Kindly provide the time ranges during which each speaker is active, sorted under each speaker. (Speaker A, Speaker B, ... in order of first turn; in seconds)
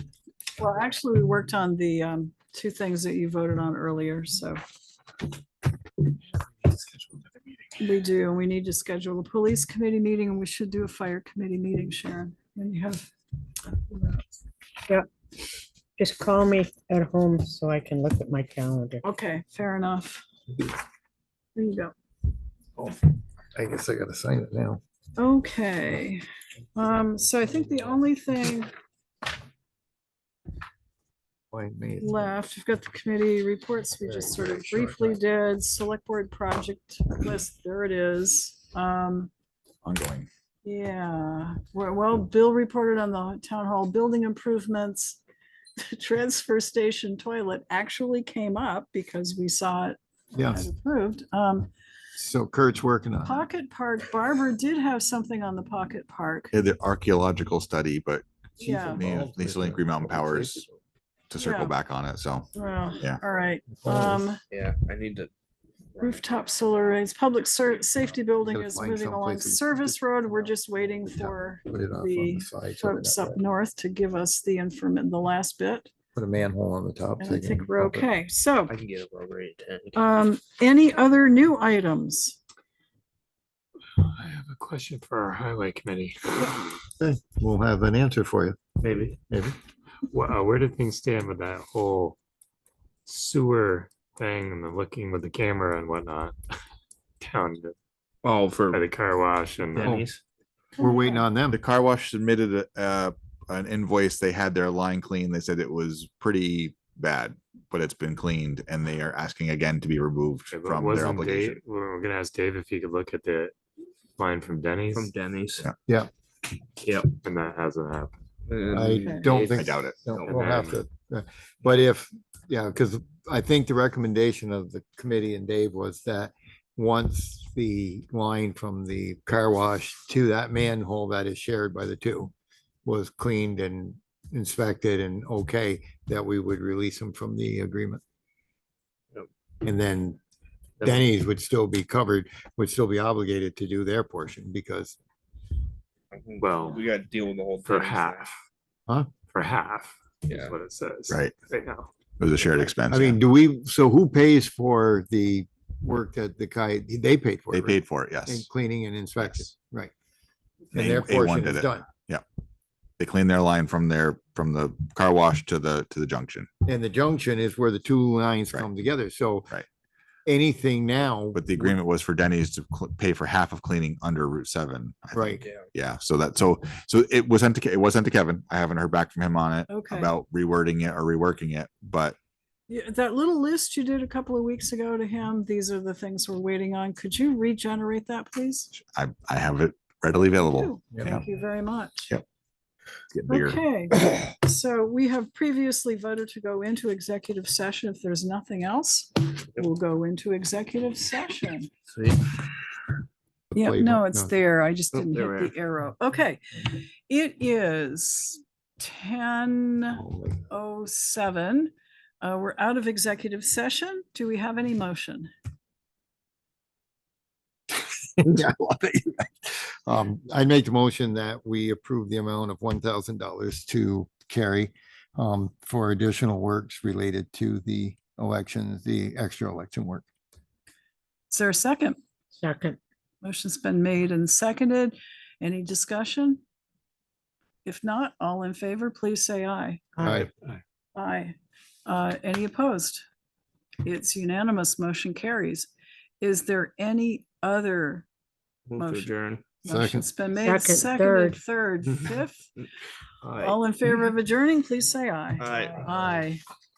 Speaker A: 0.6-4.6, 7.8-13.1, 13.7-14.2, 19.0-20.2, 21.5-21.9, 25.2-26.2, 26.7-28.7, 32.0-39.3, 40.6-45.2, 45.8-51.7, 53.2-56.5, 58.6-59.0, 61.4-61.8, 62.5-64.4, 66.0-75.9, 77.2-78.7, 79.9-82.4, 100.8-101.2, 119.0-119.3, 179.7-180.1, 182.7-188.7, 190.4-192.1, 193.3-201.7, 203.5-215.3, 231.3-232.0, 233.2-236.4, 237.6-239.8, 240.9-243.0, 243.8-248.1, 248.8-252.5, 253.4-256.4
Speaker B: 16.0-19.0, 232.4-232.8, 240.0-240.3, 250.3-251.4
Speaker C: 23.5-24.8, 31.5-32.3, 34.0-35.1, 50.3-50.6, 52.2-53.4, 58.6-60.2, 63.8-64.2, 68.4-70.0, 71.0-73.4, 76.1-78.1, 87.0-88.6, 100.8-101.6, 118.7-132.3, 132.8-138.0, 139.6-140.2, 140.8-144.9, 152.9-159.9, 160.7-161.9, 166.6-169.5, 170.2-171.7, 175.1-175.4, 203.5-204.3, 209.9-210.4, 217.8-230.0, 240.0-240.3, 249.6-250.1
Speaker D: 39.8-40.3, 56.5-58.2, 58.9-60.6, 61.3-62.5, 101.5-111.6, 119.5-120.0, 152.2-153.2, 157.5-158.4, 160.7-162.2, 163.0-166.5, 171.3-182.2, 188.7-191.2, 193.1-193.6
Speaker E: 64.5-65.3, 78.7-80.0, 88.8-89.2, 98.2-98.8, 99.7-100.2, 114.9-115.7, 116.8-117.1, 118.5-120.6, 140.8-141.0, 146.1-148.3, 150.3-150.6, 175.4-175.7, 201.9-202.5, 204.9-205.5, 248.7-249.4, 253.2-253.6, 255.4-255.9
Speaker F: 84.0-86.7, 90.1-92.2, 93.0-96.3, 97.2-97.7, 98.7-100.0, 110.5-113.5, 114.2-115.1, 117.2-118.2, 119.2-119.7, 120.2-120.8, 146.4-146.8, 147.6-148.3, 149.3-151.9